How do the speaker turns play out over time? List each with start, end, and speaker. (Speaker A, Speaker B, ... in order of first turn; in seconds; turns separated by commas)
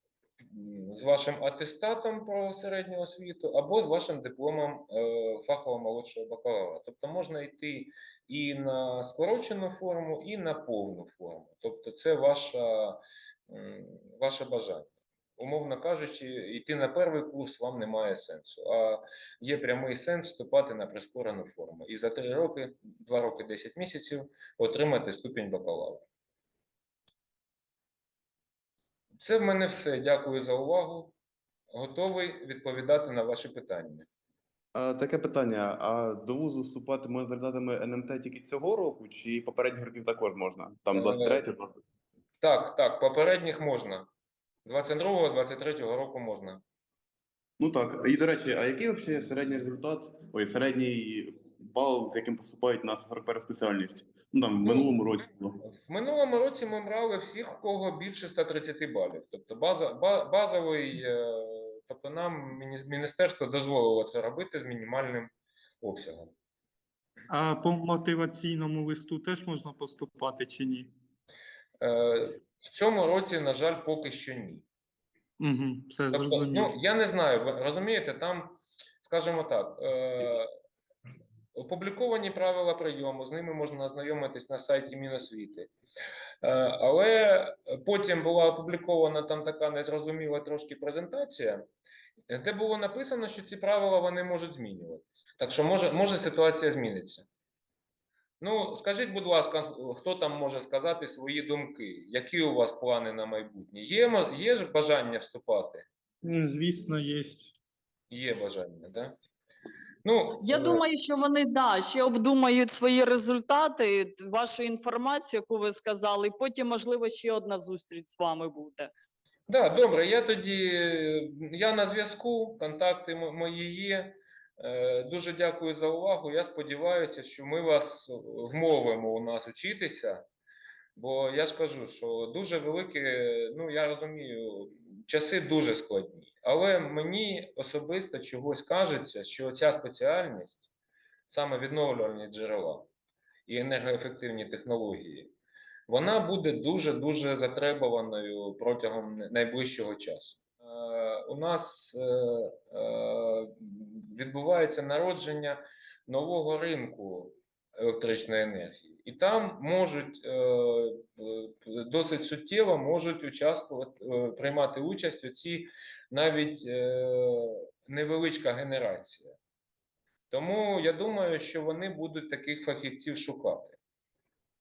Speaker A: 0.4-26.0, Speaker A: 29.2-31.1, Speaker A: 31.7-34.1, Speaker B: 34.7-41.8, Speaker A: 40.9-41.4, Speaker A: 42.4-44.1, Speaker A: 44.6-46.6, Speaker B: 47.6-55.6, Speaker A: 54.6-55.0, Speaker A: 55.6-66.3, Speaker C: 67.3-70.9, Speaker A: 71.8-74.7, Speaker C: 75.4-76.7, Speaker A: 76.1-80.5, Speaker A: 81.5-85.7, Speaker A: 86.4-91.6, Speaker A: 92.3-97.2, Speaker A: 98.4-105.8, Speaker C: 106.2-107.5, Speaker A: 108.1-109.2, Speaker A: 110.0-110.8, Speaker D: 110.4-118.9, Speaker A: 119.5-130.2, Speaker A: 130.9-140.7, Speaker A: 141.3-142.9, Speaker A: 143.4-145.3, Speaker A: 145.9-169.4, Speaker A: 170.3-173.8